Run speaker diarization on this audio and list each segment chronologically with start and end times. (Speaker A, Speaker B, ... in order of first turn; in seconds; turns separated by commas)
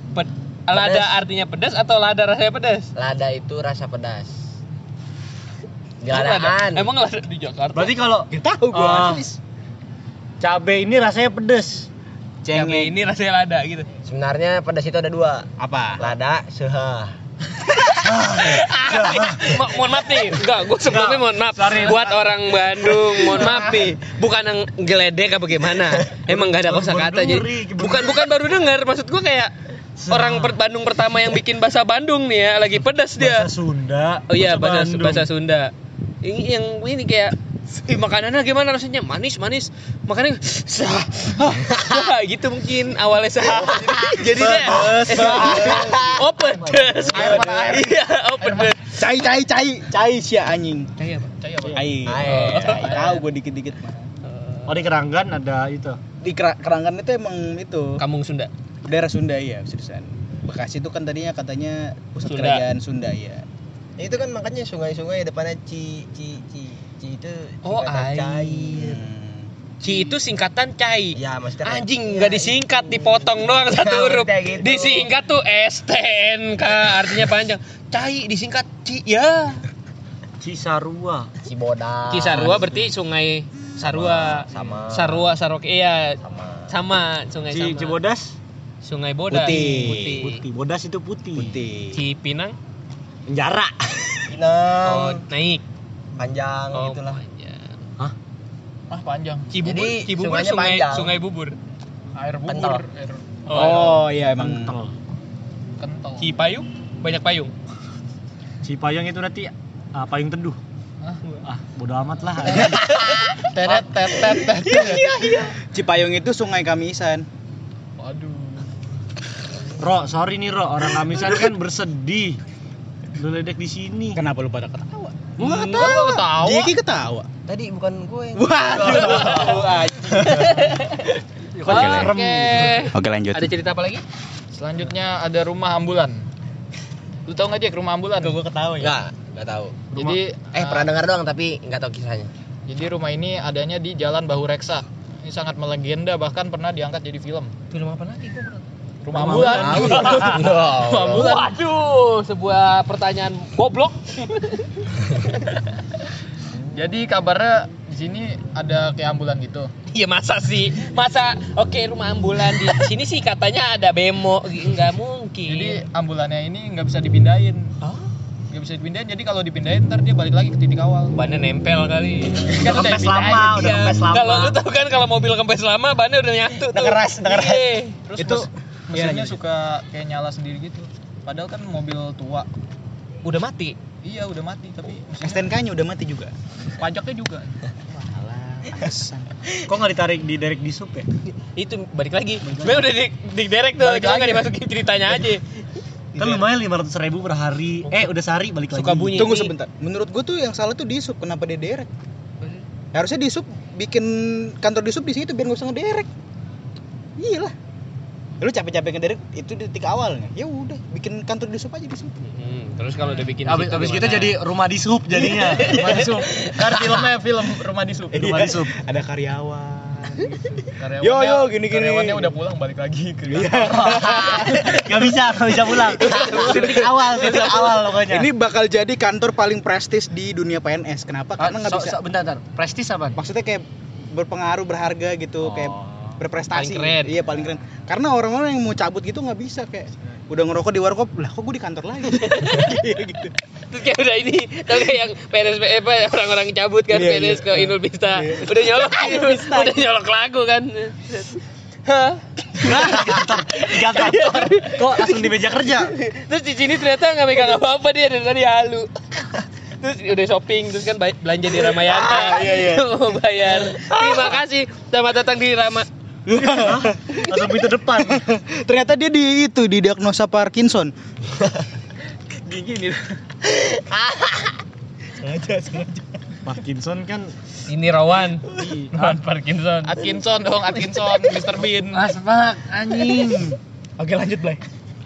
Speaker A: 0.1-2.9, Speaker B: 0.7-1.2, Speaker B: 3.0-4.4, Speaker B: 6.0-6.9, Speaker A: 6.1-7.9, Speaker C: 7.7-9.2, Speaker D: 8.3-9.4, Speaker C: 10.4-11.9, Speaker D: 12.4-12.9, Speaker A: 12.5-13.9, Speaker B: 14.1-17.1, Speaker D: 15.6-16.1, Speaker A: 17.8-29.5, Speaker C: 18.0-19.9, Speaker C: 20.8-23.9, Speaker C: 26.3-28.2, Speaker C: 30.0-30.6, Speaker A: 30.1-33.5, Speaker C: 33.2-35.3, Speaker A: 34.3-35.7, Speaker A: 36.2-48.8, Speaker B: 43.6-44.2, Speaker D: 44.2-46.1, Speaker B: 44.8-47.7, Speaker E: 47.1-48.7, Speaker D: 48.9-50.9, Speaker A: 51.0-51.3, Speaker E: 51.4-51.9, Speaker D: 51.7-54.1, Speaker B: 52.0-53.0, Speaker A: 52.2-53.2, Speaker E: 52.8-53.2, Speaker A: 54.2-54.8, Speaker C: 54.7-56.0, Speaker D: 56.2-58.0, Speaker A: 58.0-58.5, Speaker D: 58.8-63.4, Speaker A: 62.2-62.6, Speaker B: 64.0-69.0, Speaker A: 67.6-68.8, Speaker D: 68.7-69.5, Speaker A: 69.8-79.6, Speaker B: 69.8-70.1, Speaker B: 71.1-75.1, Speaker C: 80.4-81.3, Speaker B: 81.4-82.8, Speaker A: 82.1-88.0, Speaker B: 83.9-85.3, Speaker B: 86.2-86.7, Speaker C: 87.5-88.4, Speaker A: 88.8-90.4, Speaker D: 89.3-90.2, Speaker C: 89.5-91.6, Speaker D: 91.3-92.0, Speaker A: 91.9-92.6, Speaker C: 93.3-94.3, Speaker B: 94.3-95.2, Speaker A: 94.8-95.6, Speaker B: 96.2-97.2, Speaker A: 96.7-97.7, Speaker E: 98.9-99.5, Speaker A: 99.5-101.6, Speaker B: 99.6-101.1, Speaker E: 102.2-103.9, Speaker C: 102.5-102.8, Speaker A: 103.5-104.0, Speaker D: 103.5-104.7, Speaker C: 104.3-104.9, Speaker E: 105.8-106.3, Speaker A: 106.2-107.5, Speaker C: 108.6-110.6, Speaker E: 111.0-111.4, Speaker C: 111.4-113.0, Speaker E: 113.5-115.3, Speaker C: 114.7-115.1, Speaker D: 115.7-117.2, Speaker E: 118.0-118.7, Speaker C: 119.8-122.4, Speaker C: 123.1-124.2, Speaker D: 124.1-127.3, Speaker C: 125.4-126.1, Speaker E: 125.7-126.7, Speaker B: 127.4-129.4, Speaker D: 128.4-130.8, Speaker A: 128.7-129.7, Speaker E: 130.2-130.5, Speaker A: 130.2-131.1, Speaker C: 131.5-132.9, Speaker D: 131.6-132.1, Speaker A: 131.7-134.0, Speaker D: 132.9-133.5, Speaker E: 134.5-136.2, Speaker E: 137.3-138.4, Speaker D: 138.2-138.9, Speaker B: 138.8-139.8, Speaker E: 139.9-140.9, Speaker B: 140.5-142.3, Speaker E: 142.7-147.5, Speaker A: 147.7-155.6, Speaker E: 149.0-150.2, Speaker C: 149.1-150.4, Speaker B: 149.6-151.5, Speaker E: 156.7-159.7, Speaker A: 159.9-165.8, Speaker E: 165.5-167.7, Speaker A: 167.8-168.1, Speaker E: 168.5-171.1, Speaker A: 171.1-178.0, Speaker C: 172.5-174.6, Speaker E: 172.7-173.1, Speaker D: 176.7-179.4, Speaker E: 178.1-182.5, Speaker A: 183.2-183.8, Speaker E: 184.0-185.5, Speaker D: 185.2-186.3, Speaker E: 186.8-187.6, Speaker D: 187.9-189.4, Speaker C: 189.7-191.1, Speaker A: 191.5-195.4, Speaker C: 193.8-194.5, Speaker C: 196.1-199.3, Speaker D: 196.2-196.4, Speaker A: 198.7-199.5, Speaker D: 199.1-201.9, Speaker D: 202.9-206.1, Speaker D: 207.2-207.5, Speaker D: 208.4-212.1, Speaker A: 212.2-214.4, Speaker C: 213.4-216.1, Speaker A: 215.3-216.5, Speaker E: 215.6-218.4, Speaker D: 218.1-220.4, Speaker C: 218.1-218.7, Speaker E: 220.5-224.8, Speaker D: 221.0-222.3, Speaker D: 223.3-225.0, Speaker C: 223.6-228.3, Speaker D: 225.7-232.0, Speaker A: 226.0-227.5, Speaker C: 231.4-233.2, Speaker D: 233.1-243.3, Speaker C: 235.4-236.1, Speaker A: 236.5-237.2, Speaker A: 242.2-242.8, Speaker A: 243.7-258.9, Speaker D: 246.9-249.9, Speaker C: 252.6-255.9, Speaker D: 252.6-253.3, Speaker D: 253.9-254.4, Speaker A: 259.8-265.9, Speaker D: 261.7-262.8, Speaker D: 266.3-270.9, Speaker C: 266.3-268.2, Speaker E: 272.4-273.2, Speaker B: 273.5-274.5, Speaker D: 275.2-276.0, Speaker C: 276.4-277.3, Speaker A: 277.7-280.0, Speaker E: 278.9-279.2, Speaker E: 279.8-282.0, Speaker C: 281.9-283.6, Speaker D: 283.0-284.6